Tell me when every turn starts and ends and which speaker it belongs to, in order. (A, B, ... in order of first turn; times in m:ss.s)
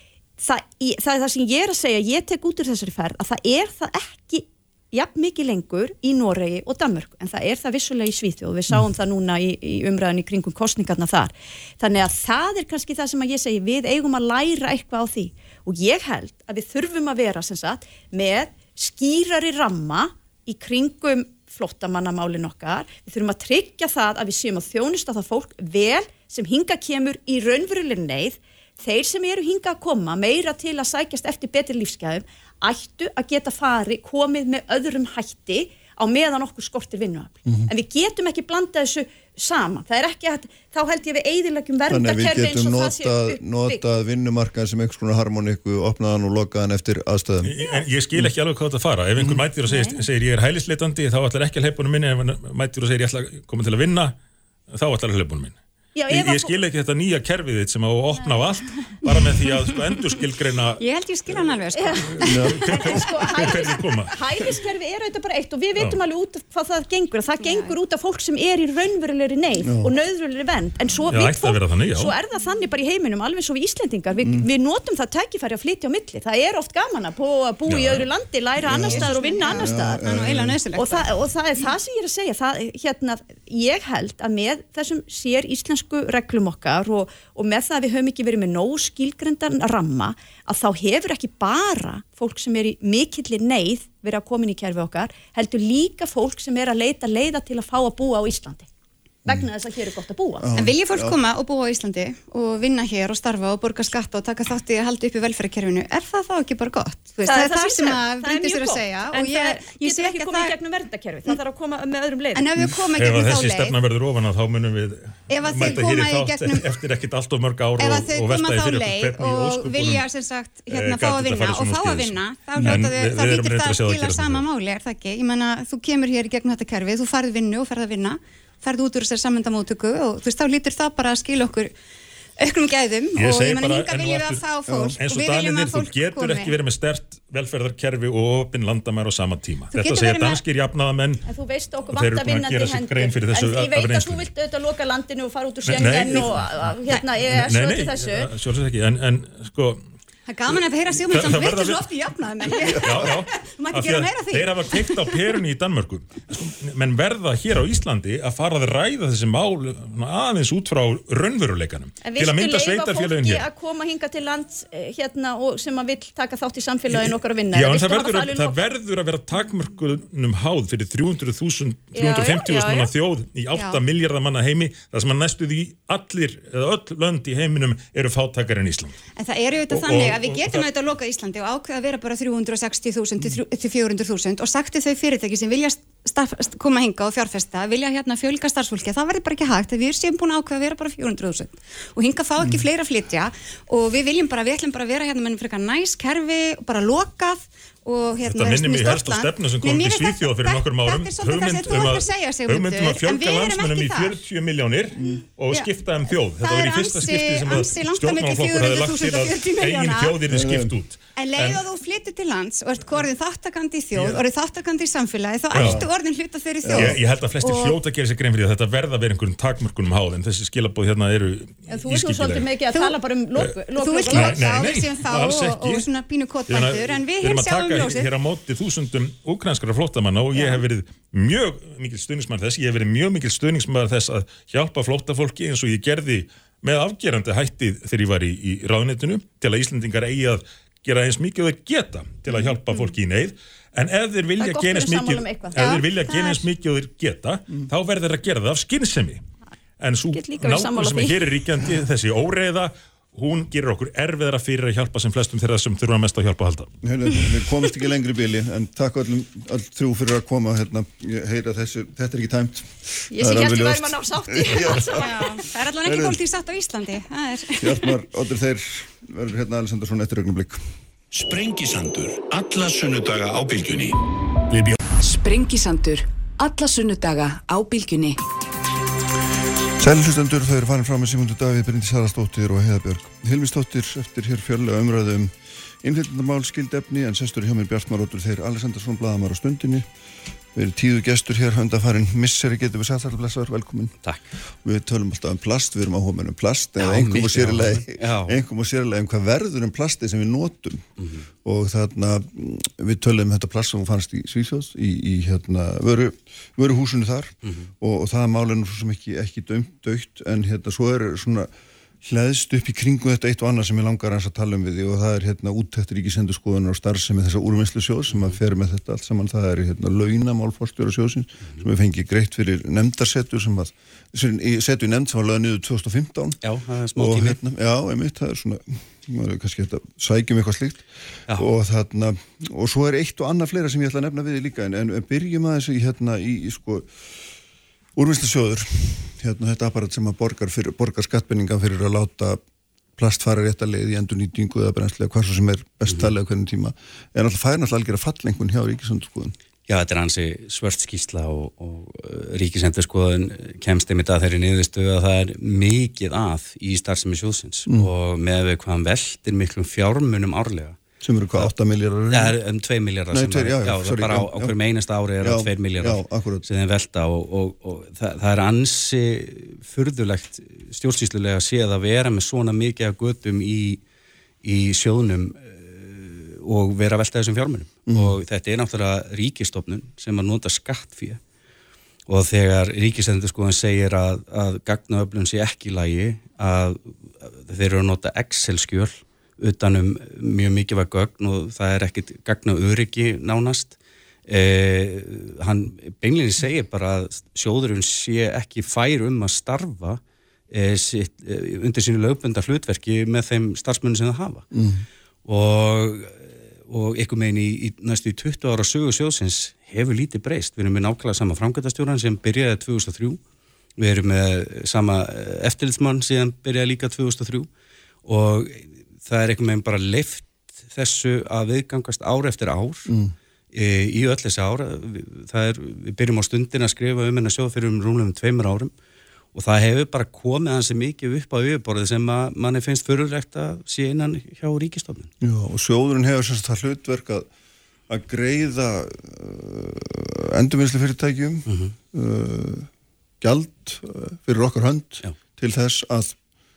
0:00.4-0:43.8 A
0:41.9-0:47.5 B
0:47.4-0:54.2 C
0:49.7-0:50.0 A
0:54.7-0:55.6 C
0:56.0-0:56.6 A
0:56.1-1:00.8 C
1:00.8-1:02.5 D
1:01.8-1:20.1 A
1:02.1-1:04.2 C
1:02.3-1:02.6 B
1:07.4-1:07.7 D
1:09.6-1:09.9 B
1:11.1-1:12.2 C
1:17.7-1:18.1 C
1:18.6-1:20.6 B
1:18.9-1:21.0 D
1:20.8-1:38.7 A
1:39.2-1:40.5 A
1:40.4-1:41.2 B
1:40.6-1:50.5 D
1:47.2-1:52.5 A
1:52.4-1:53.8 D
1:52.9-2:00.1 C
1:55.3-1:56.7 D
1:57.8-2:11.8 D
2:00.7-2:04.4 C
2:02.6-2:02.9 B
2:12.4-2:16.6 D
2:13.2-2:21.2 C
2:19.7-2:20.4 D
2:21.3-2:28.3 A
2:21.9-2:24.3 C
2:25.7-2:29.8 C
2:30.3-2:35.4 D
2:30.5-2:31.9 C
2:32.5-2:43.5 C
2:32.6-2:33.1 B
2:42.0-2:48.6 A
2:46.9-2:59.0 C
2:51.9-2:52.9 A
2:53.5-2:53.8 D
2:59.2-3:24.2 D
2:59.7-3:00.7 C
3:12.4-3:12.6 B
3:18.2-3:31.6 C
3:25.0-3:25.7 D
3:26.3-3:30.2 D
3:30.3-3:30.8 B
3:31.2-3:37.8 D
3:33.9-3:34.2 C
3:35.5-3:35.8 C
3:35.6-3:35.9 B
3:36.6-3:37.0 B
3:36.7-3:42.5 C
3:41.7-3:44.5 A
3:43.7-3:48.1 D
3:44.1-3:45.9 C
3:46.5-4:09.2 C
3:50.3-3:50.6 D
4:04.4-4:06.4 A
4:09.8-4:16.7 C
4:10.1-4:11.2 A
4:16.8-4:25.3 B
4:23.1-4:25.4 A
4:25.0-4:28.0 D
4:25.8-4:26.2 B
4:27.6-4:30.6 B
4:31.1-4:34.0 E
4:34.5-4:34.8 E
4:35.0-4:38.2 F
4:39.8-4:49.9 B
4:50.5-4:54.0 B
4:54.6-5:00.9 B
4:56.8-4:58.4 G
5:01.0-5:01.2 G
5:01.4-5:11.5 B
5:07.4-5:07.7 G
5:12.0-5:26.4 B
5:18.1-5:18.4 G
5:26.4-5:27.4 G
5:27.0-5:36.9 B
5:38.0-5:42.4 B
5:43.0-5:49.3 B
5:45.9-5:46.1 G
5:49.7-6:00.8 G
6:01.0-6:02.3 B
6:02.1-6:13.8 G
6:03.1-6:04.6 B
6:05.2-6:06.4 B
6:14.4-6:21.2 G
6:17.9-6:18.1 B
6:22.1-6:33.8 G
6:34.3-6:40.0 G
6:40.5-6:44.5 G
6:44.5-6:44.8 B
6:45.2-6:53.2 G
6:53.8-6:57.5 G
6:58.0-7:02.9 G
7:02.9-7:03.1 B
7:03.5-7:08.7 G
7:09.3-7:15.1 G
7:15.2-7:17.3 B
7:17.9-7:22.7 B
7:21.5-7:21.8 G
7:23.2-7:26.2 B